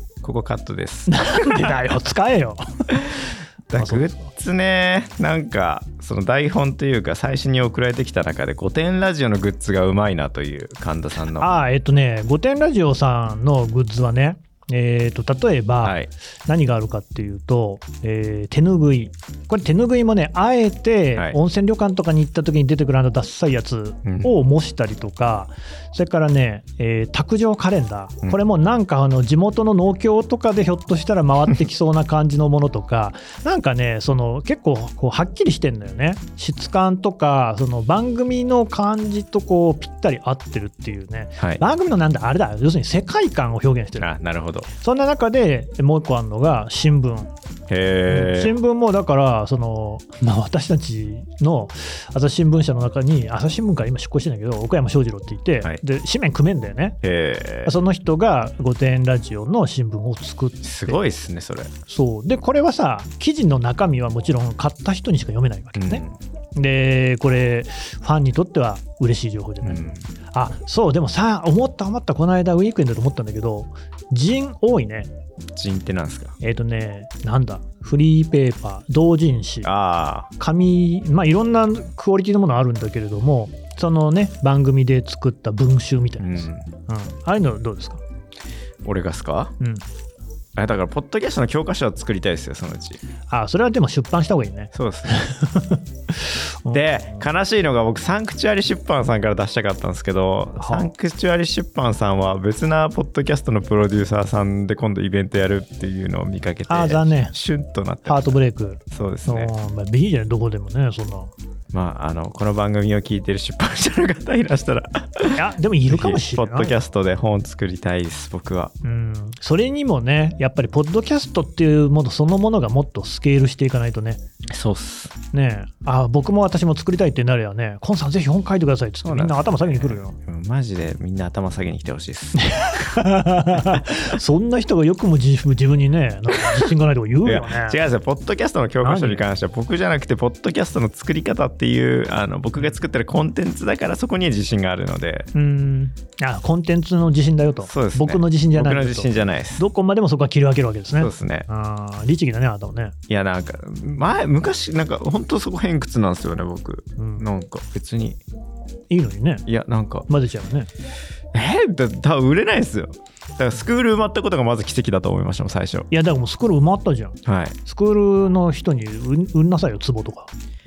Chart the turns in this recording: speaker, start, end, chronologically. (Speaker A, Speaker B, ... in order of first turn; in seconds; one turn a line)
Speaker A: 0.2-1.8
Speaker B: 1.1-3.1
Speaker A: 2.9-11.5
Speaker B: 3.8-4.3
Speaker B: 11.3-44.1
Speaker A: 15.8-16.1
Speaker A: 24.1-24.3
Speaker A: 44.0-44.7
Speaker B: 44.7-47.3
Speaker A: 47.7-48.5
Speaker B: 48.1-57.0
Speaker A: 57.0-57.7
Speaker B: 57.7-61.0
Speaker A: 60.6-61.7
Speaker B: 61.9-66.0
Speaker A: 65.8-66.2
Speaker B: 66.5-75.1
Speaker A: 69.6-70.1
Speaker A: 75.5-76.3
Speaker B: 76.4-79.7
Speaker A: 79.6-80.3
Speaker B: 80.4-88.0
Speaker A: 86.2-86.7
Speaker A: 88.8-89.5
Speaker B: 89.6-89.8
Speaker A: 90.6-93.0
Speaker B: 93.3-97.2
Speaker A: 94.7-95.3
Speaker A: 96.7-108.4
Speaker B: 100.6-100.9
Speaker B: 106.7-107.3
Speaker B: 108.1-111.3
Speaker A: 108.9-109.5
Speaker A: 111.7-118.7
Speaker B: 115.4-116.8
Speaker B: 118.8-124.2
Speaker A: 124.5-125.1
Speaker B: 125.3-130.2
Speaker A: 129.0-133.9
Speaker B: 132.4-137.8
Speaker A: 137.2-145.3
Speaker B: 138.8-139.2
Speaker B: 145.3-152.9
Speaker A: 147.6-149.6
Speaker A: 151.0-151.5
Speaker A: 153.1-158.2
Speaker B: 157.0-157.3
Speaker B: 158.9-159.4
Speaker A: 159.5-160.1
Speaker B: 160.1-160.7
Speaker A: 161.3-165.9
Speaker B: 165.9-170.3
Speaker A: 167.2-167.6